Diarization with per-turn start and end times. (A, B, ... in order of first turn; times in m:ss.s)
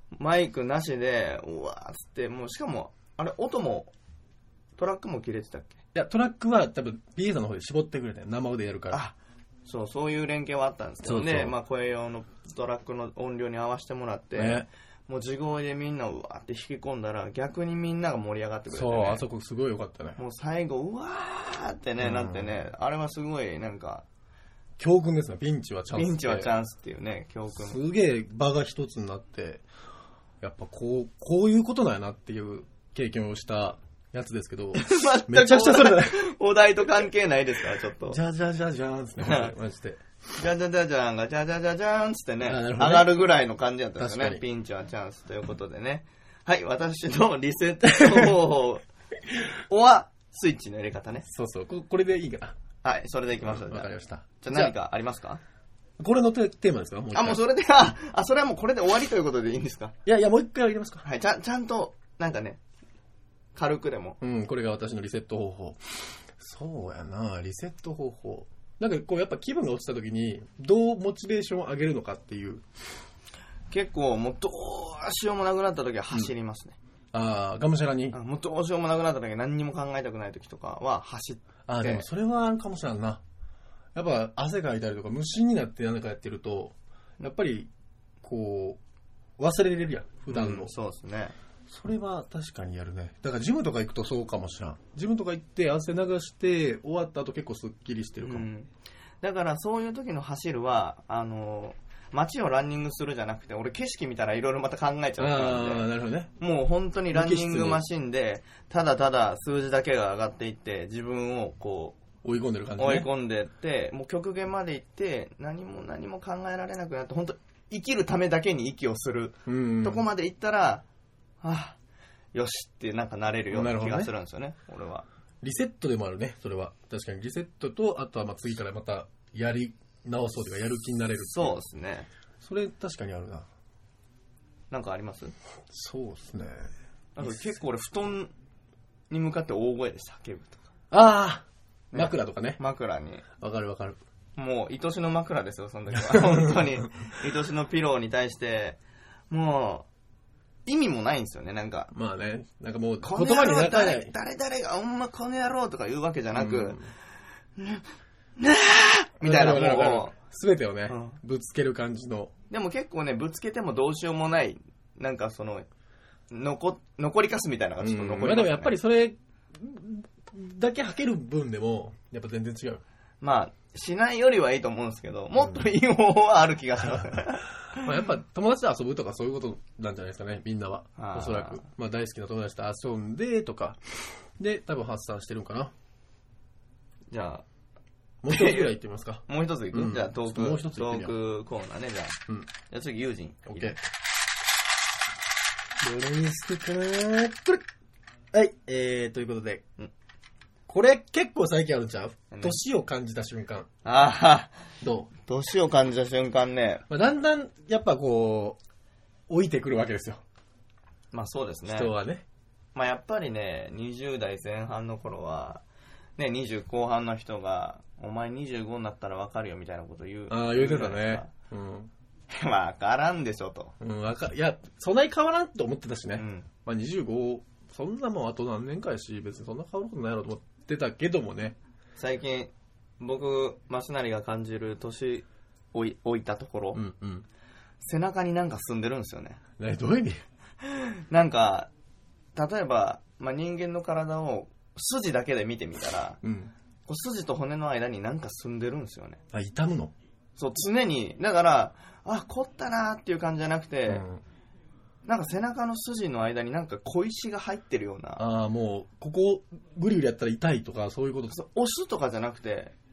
0:00.2-0:03.9 A
0:04.8-0:05.8 A
0:05.9-0:09.0 B
0:09.7-0:19.2 A
0:11.0-0:11.6 B
0:14.4-0:14.7 B
0:18.7-0:20.2 B
0:20.2-0:24.0 A
0:22.0-0:22.6 B
0:24.8-0:26.5 B
0:25.9-0:27.8 A
0:27.5-0:29.6 B
0:30.4-0:36.3 B
0:34.8-0:38.2 A
0:38.1-0:40.0 B
0:39.2-0:39.5 A
0:40.4-0:48.8 A
0:42.4-0:43.3 B
0:44.0-0:44.4 B
0:48.0-0:48.3 B
0:49.7-0:51.2 A
0:51.3-0:52.6 B
0:52.8-0:55.4 A
0:53.4-0:54.7 B
0:56.0-0:57.4 B
0:57.1-0:59.9 A
1:00.0-1:01.1 B
1:01.0-1:02.6 A
1:03.6-1:04.2 A
1:04.2-1:12.6 B
1:13.7-1:16.8 A
1:17.1-1:18.2 B
1:18.1-1:22.0 A
1:21.7-1:23.2 B
1:24.0-1:27.7 B
1:28.2-1:28.8 B
1:29.4-1:30.7 B
1:30.3-1:31.4 A
1:31.7-1:38.5 B
1:38.2-1:38.7 A
1:39.2-1:45.9 A
1:45.2-1:46.3 B
1:46.4-1:52.0 A
1:47.1-1:47.8 B
1:52.2-1:53.1 B
1:52.8-2:00.8 A
1:59.5-2:00.1 B
2:01.4-2:01.8 A
2:02.3-2:05.1 A
2:03.5-2:04.1 B
2:05.4-2:11.6 B
2:11.3-2:12.1 A
2:12.4-2:13.5 B
2:14.7-2:15.3 A
2:15.7-2:16.7 B
2:17.2-2:18.3 A
2:19.1-2:20.7 A
2:20.9-2:22.6 B
2:21.9-2:23.2 A
2:23.4-2:24.0 B
2:24.4-2:28.8 A
2:26.0-2:26.7 B
2:29.3-2:29.9 A
2:30.7-2:31.9 A
2:31.9-2:34.1 B
2:33.0-2:36.8 A
2:36.3-2:36.9 B
2:37.6-2:37.8 A
2:38.4-2:40.2 A
2:39.2-2:42.3 B
2:40.9-2:41.2 A
2:42.5-2:45.7 A
2:46.3-2:48.7 A
2:47.8-2:52.8 B
2:53.2-2:57.5 A
2:55.4-2:55.6 B
2:56.9-3:05.7 B
3:01.0-3:01.6 A
3:07.1-3:07.4 A
3:08.2-3:08.7 A
3:08.2-3:11.1 B
3:09.3-3:13.8 A
3:13.5-3:13.8 B
3:15.8-3:17.6 B
3:18.3-3:19.6 B
3:20.7-3:23.7 B
3:22.3-3:22.6 A
3:23.8-3:24.6 A
3:24.8-3:25.1 B
3:25.3-3:26.8 A
3:26.9-3:28.6 B
3:29.3-3:30.2 B
3:31.1-3:31.9 A
3:31.7-3:32.2 B
3:32.8-3:35.6 A
3:36.2-3:41.3 A
3:40.3-3:41.9 B
3:42.3-3:43.7 A
3:43.8-3:51.6 B
3:46.2-3:46.5 A
3:52.0-3:56.8 A
3:56.7-3:57.3 B
3:57.8-3:59.4 A
3:59.6-4:00.2 B
4:00.6-4:01.7 A
4:02.4-4:06.2 A
4:06.2-4:06.5 B
4:06.9-4:09.2 A
4:09.3-4:09.9 B
4:10.4-4:14.0 A
4:13.9-4:14.2 B
4:15.1-4:18.2 A
4:18.2-4:21.4 B
4:21.3-4:22.7 A